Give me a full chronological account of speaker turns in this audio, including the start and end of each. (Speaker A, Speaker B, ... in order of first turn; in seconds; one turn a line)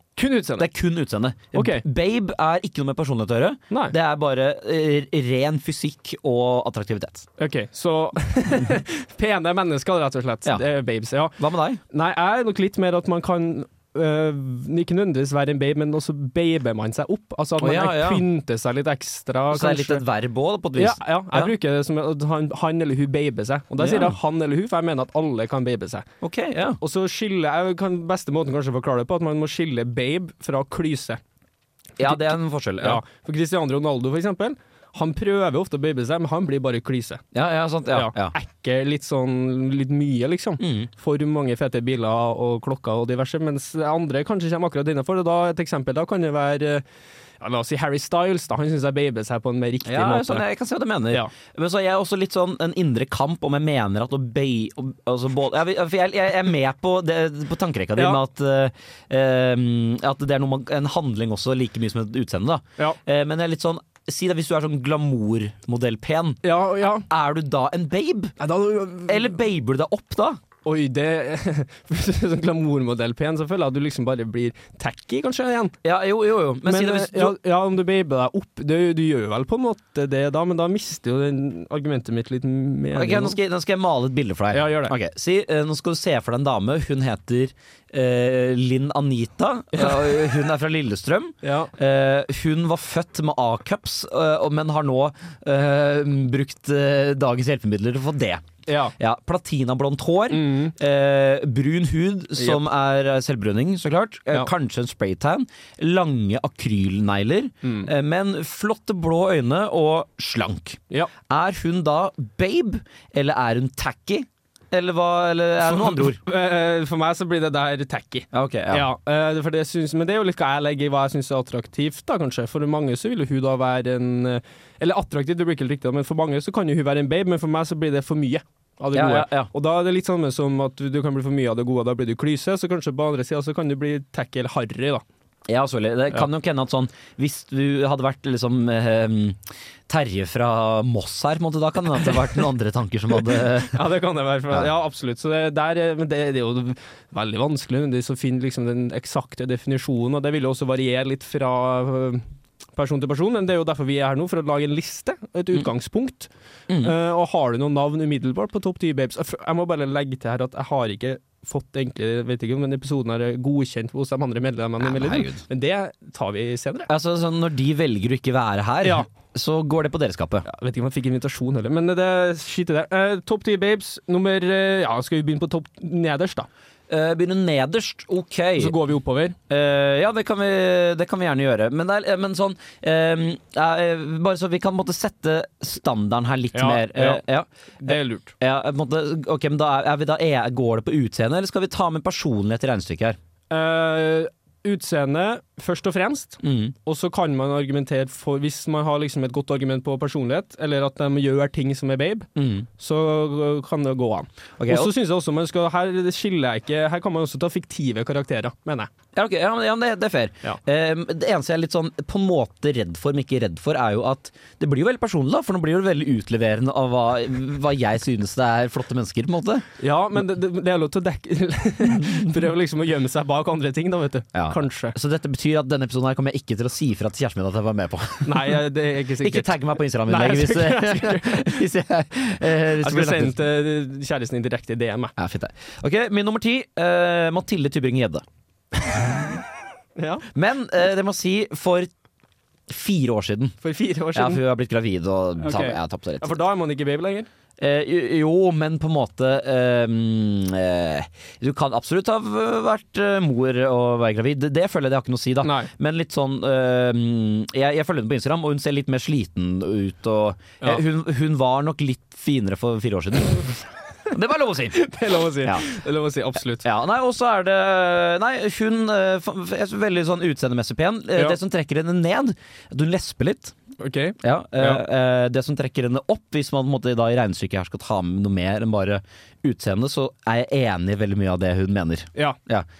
Speaker A: 0.1-0.7
Speaker B: 0.6-7.2
Speaker A: 1.5-1.8
Speaker A: 7.4-11.4
Speaker B: 11.4-11.8
Speaker A: 11.9-20.0
Speaker B: 17.6-18.2
Speaker B: 19.5-21.5
Speaker A: 20.8-26.1
Speaker B: 23.8-24.2
Speaker B: 26.2-26.8
Speaker A: 26.8-31.2
Speaker B: 32.0-33.0
Speaker A: 32.0-37.2
Speaker B: 37.3-38.3
Speaker A: 37.9-46.8
Speaker B: 40.6-40.9
Speaker A: 47.4-50.4
Speaker B: 49.9-66.4
Speaker A: 58.0-58.2
Speaker A: 66.4-67.0
Speaker B: 66.9-68.3
Speaker A: 68.4-69.3
Speaker B: 69.0-70.4
Speaker A: 70.6-75.8
Speaker B: 75.8-77.3
Speaker A: 76.6-83.4
Speaker B: 83.0-98.4
Speaker A: 84.5-84.9
Speaker A: 89.7-90.2
Speaker A: 91.4-91.7
Speaker A: 98.7-98.9
Speaker B: 99.0-116.2
Speaker A: 100.3-100.7
Speaker A: 107.6-107.9
Speaker A: 115.6-135.0
Speaker B: 118.3-118.9
Speaker B: 128.9-129.5
Speaker B: 135.5-143.8
Speaker A: 143.6-152.2
Speaker A: 152.8-166.9
Speaker B: 164.8-165.4
Speaker B: 166.9-170.4
Speaker A: 168.8-169.1
Speaker A: 170.4-176.5
Speaker B: 176.9-178.7
Speaker A: 178.6-179.4
Speaker B: 179.5-193.2
Speaker A: 186.5-187.2
Speaker A: 187.8-188.3
Speaker A: 193.5-208.9
Speaker B: 196.4-196.7
Speaker B: 202.3-202.7
Speaker B: 204.6-204.9
Speaker B: 209.1-219.6
Speaker A: 219.8-224.9
Speaker B: 224.3-228.6
Speaker A: 228.2-231.7
Speaker B: 229.2-233.3
Speaker A: 232.8-235.1
Speaker B: 235.2-238.2
Speaker A: 239.9-240.2
Speaker B: 240.3-241.9
Speaker B: 242.7-243.6
Speaker A: 243.6-244.4
Speaker B: 244.1-246.4
Speaker A: 245.4-247.3
Speaker B: 247.6-264.8
Speaker A: 255.4-255.7
Speaker A: 264.7-266.6
Speaker B: 266.6-273.5
Speaker A: 273.8-274.8
Speaker B: 274.2-282.7